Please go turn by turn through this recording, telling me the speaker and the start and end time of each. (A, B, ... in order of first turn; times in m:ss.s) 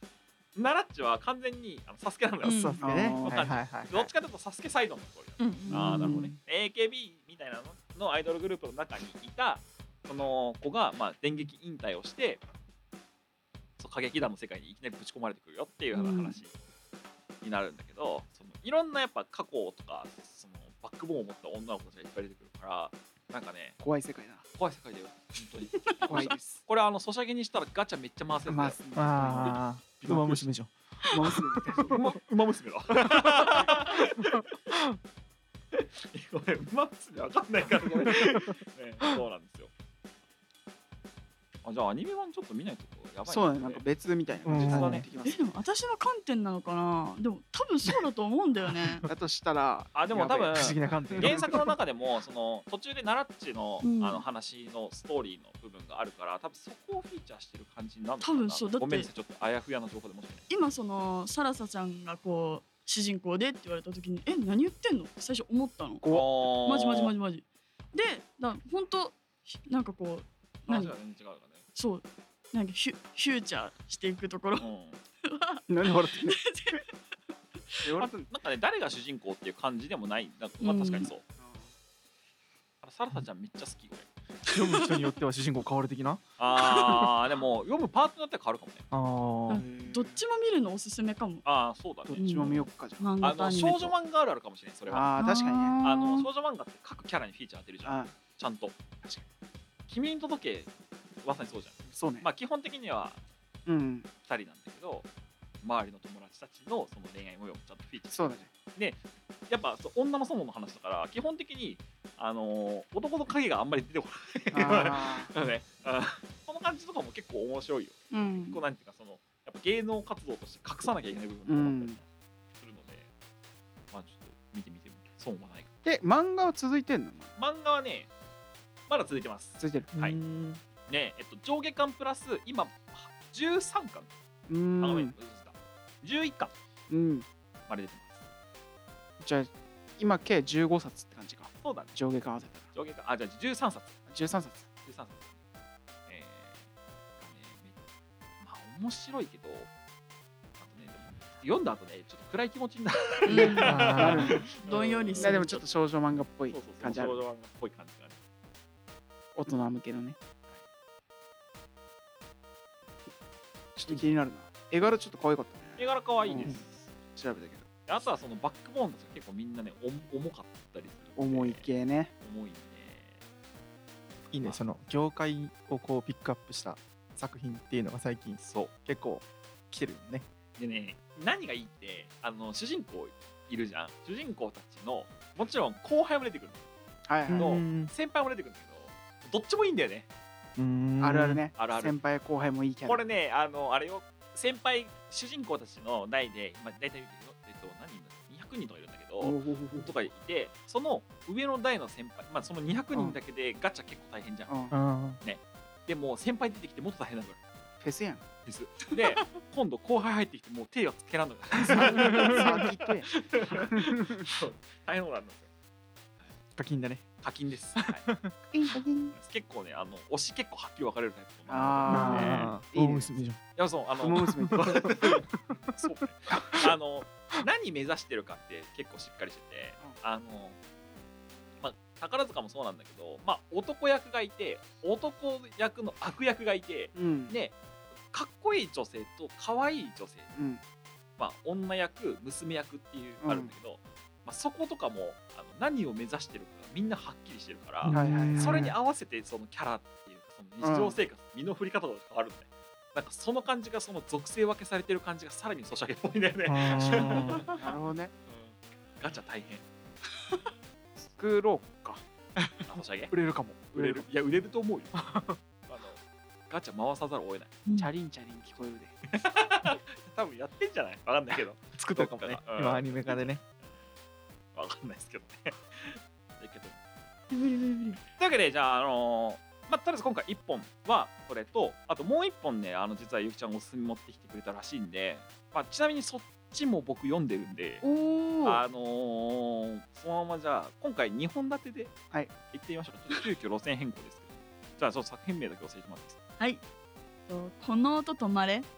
0:00.6-0:12.4 A
0:02.4-0:02.8 B
0:02.4-0:04.1 C
0:02.8-0:03.4 D
0:05.4-0:06.3 B
0:13.8-0:16.5 A
0:15.9-0:16.4 B
0:17.4-0:23.8 A
0:23.8-0:24.4 D
0:24.6-0:30.4 A
0:25.8-0:26.2 B
0:26.1-0:26.6 D
0:28.4-0:30.2 D
0:29.0-0:31.2 C
0:31.1-0:32.0 D
0:31.8-0:34.4 A
0:35.7-0:39.7 A
0:38.1-0:38.3 C
0:41.6-0:43.9 A
0:43.3-0:45.6 D
0:44.4-0:45.0 C
0:44.5-0:45.0 A
0:45.2-0:49.0 B
0:49.1-0:50.5 D
0:49.9-1:00.5 A
0:50.5-0:51.7 C
0:53.8-0:54.2 B
0:58.2-0:59.1 B
1:00.5-1:10.9 B
1:06.0-1:06.3 D
1:06.1-1:07.1 A
1:10.7-1:11.6 A
1:11.8-1:14.7 B
1:14.6-1:15.0 A
1:15.2-1:16.9 B
1:15.7-1:16.4 D
1:17.8-1:18.3 D
1:18.0-1:21.2 A
1:20.6-1:21.1 B
1:21.4-1:21.7 D
1:22.8-1:24.1 A
1:24.5-1:25.1 B
1:24.5-1:26.2 C
1:26.4-1:28.8 A
1:26.6-1:27.1 B
1:28.9-1:29.7 C
1:29.5-1:31.4 B
1:29.5-1:30.2 D
1:31.4-1:32.7 A
1:32.1-1:33.1 D
1:32.2-1:33.9 B
1:33.2-1:35.2 A
1:34.9-1:35.8 D
1:35.2-1:36.3 B
1:35.8-1:38.8 A
1:37.8-1:38.2 D
1:39.9-1:40.7 A
1:41.2-1:43.2 A
1:41.9-1:42.3 D
1:43.7-1:44.1 D
1:44.2-1:45.1 A
1:45.6-2:02.1 A
1:48.1-1:48.5 D
1:54.5-1:55.3 D
1:58.1-1:58.6 D
2:01.5-2:02.0 D
2:02.6-2:03.1 A
2:03.9-2:05.7 A
2:05.8-2:07.3 D
2:07.4-2:08.1 A
2:08.9-2:10.2 A
2:09.6-2:09.9 D
2:09.9-2:10.6 C
2:10.9-2:14.1 A
2:14.5-2:15.1 D
2:14.8-2:16.5 A
2:16.9-2:17.3 D
2:17.7-2:18.2 A
2:19.2-2:22.7 D
2:21.6-2:21.9 A
2:22.7-2:24.0 A
2:24.1-2:24.7 D
2:24.8-2:25.3 A
2:26.1-2:26.6 A
2:27.2-2:27.7 A
2:28.4-2:29.7 A
2:30.6-2:35.6 A
2:33.3-2:34.5 D
2:33.3-2:35.6 B
2:33.6-2:34.4 C
2:35.2-2:37.2 D
2:36.4-2:38.2 A
2:39.4-2:40.2 D
2:43.8-2:46.6 D
2:45.8-2:46.9 A
2:47.2-2:47.7 D
2:47.9-2:51.7 A
2:51.2-2:52.1 D
2:52.2-2:53.2 A
2:54.3-3:00.3 C
2:58.4-2:58.7 A
3:00.6-3:06.6 A
3:07.1-3:07.5 D
3:07.3-3:07.9 C
3:07.4-3:10.1 A
3:10.6-3:11.5 C
3:11.0-3:13.0 D
3:11.6-3:12.0 A
3:12.8-3:24.5 A
3:19.2-3:19.9 D
3:22.9-3:23.2 D
3:24.5-3:24.8 D
3:24.7-3:25.2 C
3:25.2-3:27.4 A
3:27.8-3:28.2 D
3:28.5-3:35.5 A
3:31.7-3:34.2 D
3:31.8-3:32.5 C
3:36.6-3:37.0 C
3:37.2-3:38.0 A
3:37.8-3:38.3 C
3:38.5-3:39.2 D
3:39.1-3:42.5 A
3:41.5-3:43.1 D
3:41.9-3:43.4 C
3:43.6-3:50.6 A
3:44.0-3:44.9 D
3:44.2-3:45.6 C
3:51.6-3:57.6 A
3:57.0-3:57.4 D
3:58.1-4:00.3 A
4:00.4-4:00.6 D
4:01.2-4:17.7 A
4:03.2-4:03.5 D
4:07.8-4:08.7 C
4:07.9-4:08.7 D
4:10.6-4:11.0 D
4:16.4-4:17.5 C
4:17.4-4:18.1 D
4:18.3-4:19.6 A
4:21.2-4:22.0 D
4:22.7-4:23.1 A
4:23.1-4:23.8 C
4:23.7-4:25.0 A
4:23.8-4:24.0 D
4:25.0-4:25.4 C
4:25.6-4:27.5 A
4:27.6-4:27.9 B
4:27.7-4:29.0 D
4:29.1-4:33.4 A
4:31.8-4:33.4 C
4:34.6-4:36.8 A
4:37.3-4:38.0 B
4:38.2-4:47.9 A
4:47.8-4:48.6 B
4:48.4-4:52.0 A
4:52.5-4:56.2 A
4:57.3-4:58.7 B